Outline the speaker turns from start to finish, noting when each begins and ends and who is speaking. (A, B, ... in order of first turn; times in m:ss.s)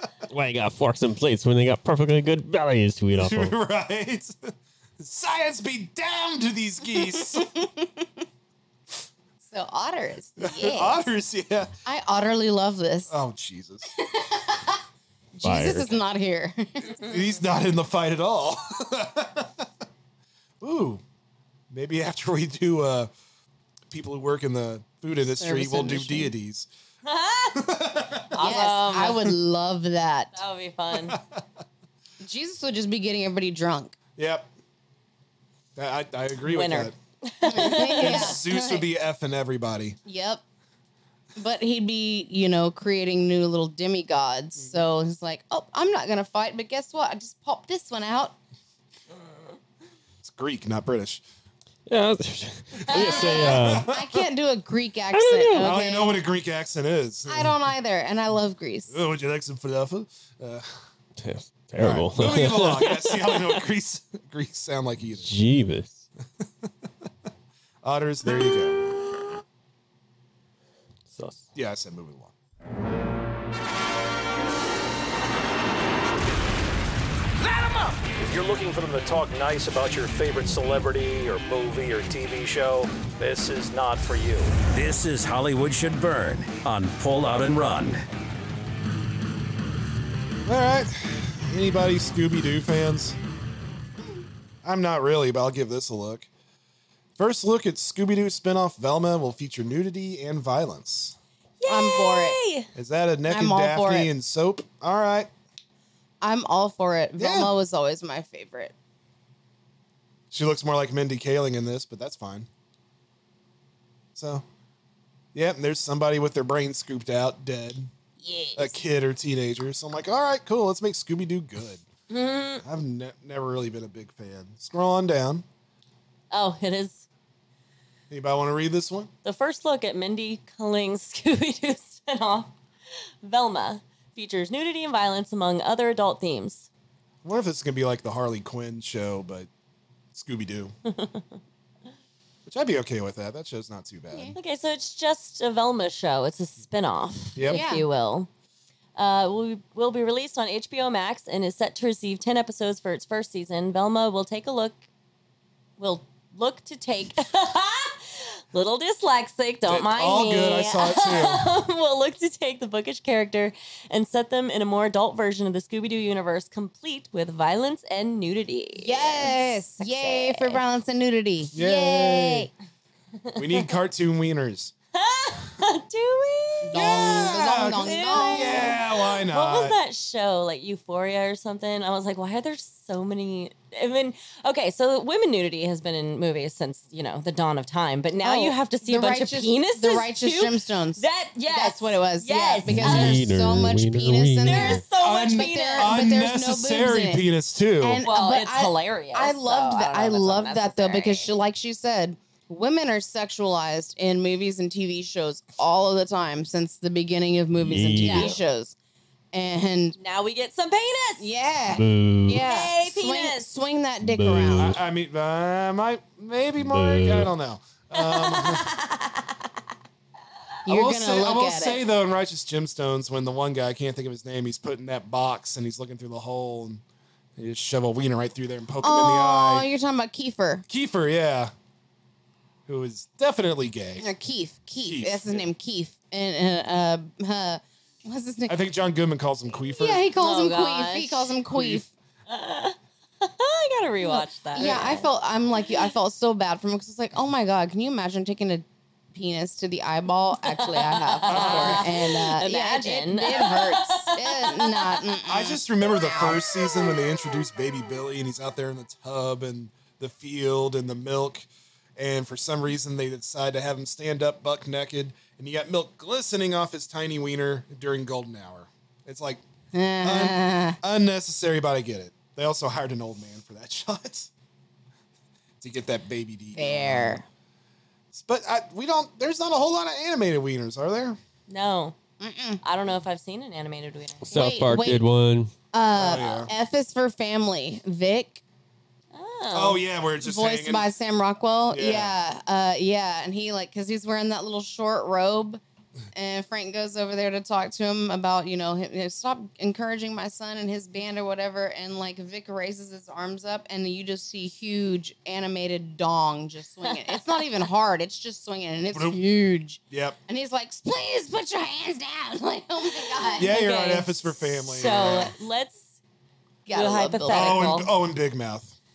0:00.3-0:03.5 A
0:03.1-0:07.5 B
0:07.2-0:08.0 C
0:09.4-0:11.1 C
0:10.4-0:11.7 B
0:11.8-0:13.1 C
0:13.1-0:13.9 B
0:14.0-0:14.8 C
0:15.3-0:17.1 C
0:15.4-0:16.0 A
0:17.0-0:19.7 B
0:20.6-0:21.0 B
0:21.7-0:23.1 B
0:23.9-0:26.7 B
0:25.2-0:26.3 C
0:27.0-0:29.4 D
0:27.5-0:28.6 B
0:28.4-0:30.3 C
0:30.3-0:31.2 D
0:30.9-0:31.4 B
0:32.2-0:34.0 C
0:34.2-0:34.5 B
0:35.8-0:36.9 B
0:36.4-0:38.4 D
0:37.4-0:38.8 C
0:37.6-0:40.0 B
0:40.0-0:40.4 C
0:41.4-0:48.4 C
0:44.6-0:44.8 B
0:50.2-0:51.2 B
0:51.9-0:53.9 A
0:52.9-0:56.2 C
0:52.9-0:53.4 D
0:53.2-0:54.1 B
0:55.1-0:55.7 A
0:55.6-0:57.6 B
0:57.3-0:59.0 C
0:58.9-1:00.7 B
1:01.2-1:03.6 A
1:01.8-1:05.3 B
1:05.2-1:06.0 A
1:07.8-1:08.8 B
1:11.1-1:11.4 A
1:11.5-1:12.3 B
1:17.4-1:28.0 E
1:30.4-1:33.2 B
1:34.6-1:36.3 B
1:37.2-1:41.2 B
1:41.6-1:42.7 D
1:41.7-1:42.4 C
1:42.7-1:45.3 B
1:43.3-1:44.1 C
1:46.2-1:48.7 C
1:47.2-1:47.5 B
1:50.3-1:52.5 B
1:54.1-1:54.4 B
1:55.3-1:57.9 B
1:58.2-1:58.8 C
1:58.6-2:01.8 B
2:02.1-2:02.6 D
2:02.6-2:05.4 B
2:06.3-2:07.0 D
2:08.1-2:09.1 B
2:09.2-2:12.5 D
2:13.2-2:16.7 D
2:17.2-2:19.5 B
2:20.1-2:20.7 B
2:20.9-2:21.2 D
2:22.4-2:24.4 B
2:24.3-2:28.3 D
2:27.4-2:27.6 B
2:27.5-2:27.8 C
2:29.0-2:34.8 D
2:35.8-2:50.6 D
2:39.6-2:41.5 B
2:48.8-2:52.5 C
2:51.5-2:52.5 B
2:53.3-2:53.7 D
2:53.3-2:54.7 B
2:54.9-3:13.3 D
2:56.6-2:58.8 C
2:56.7-2:59.8 B
3:08.2-3:17.2 C
3:12.7-3:14.8 A
3:14.4-3:16.0 D
3:15.0-3:18.0 B
3:17.8-3:28.8 C
3:18.0-3:21.3 D
3:27.6-3:28.4 A
3:28.0-3:28.4 D
3:29.3-3:30.0 C
3:30.0-3:31.3 D
3:31.2-3:34.8 C
3:31.7-3:32.4 A
3:32.3-3:33.5 D
3:34.0-3:34.8 A
3:34.5-3:38.8 B
3:36.6-3:37.3 A
3:38.0-3:39.3 D
3:40.6-3:41.8 C
3:40.7-3:46.8 B
3:47.4-3:49.7 B
3:48.8-3:50.6 C
3:50.7-3:51.5 B
3:52.7-3:54.0 B
3:54.0-3:58.6 C
3:54.8-3:55.5 B
3:58.5-4:00.0 B
3:59.8-4:01.9 C
4:00.1-4:01.3 D
4:01.5-4:01.8 B
4:02.3-4:05.1 D
4:04.0-4:16.4 C
4:10.4-4:15.0 D
4:11.3-4:11.9 B
4:15.2-4:29.4 B
4:29.7-4:30.8 C
4:30.0-4:34.3 B
4:35.6-4:37.2 B
4:36.6-4:37.2 C
4:38.1-4:41.2 B
4:41.5-4:42.0 D
4:42.2-4:42.6 C
4:42.6-4:44.3 D
4:44.2-4:45.5 A
4:44.3-4:45.0 C
4:45.7-4:48.4 C
4:45.9-4:46.5 B
4:49.1-4:49.8 D
4:49.5-4:50.9 B
4:50.2-4:55.6 C
4:51.7-4:52.1 B
4:56.1-5:13.5 C
5:06.9-5:07.1 D
5:08.9-5:09.2 B
5:09.9-5:10.2 B
5:13.3-5:16.0 D
5:13.4-5:15.3 B
5:16.6-5:17.7 C
5:16.7-5:17.9 D
5:17.3-5:18.7 B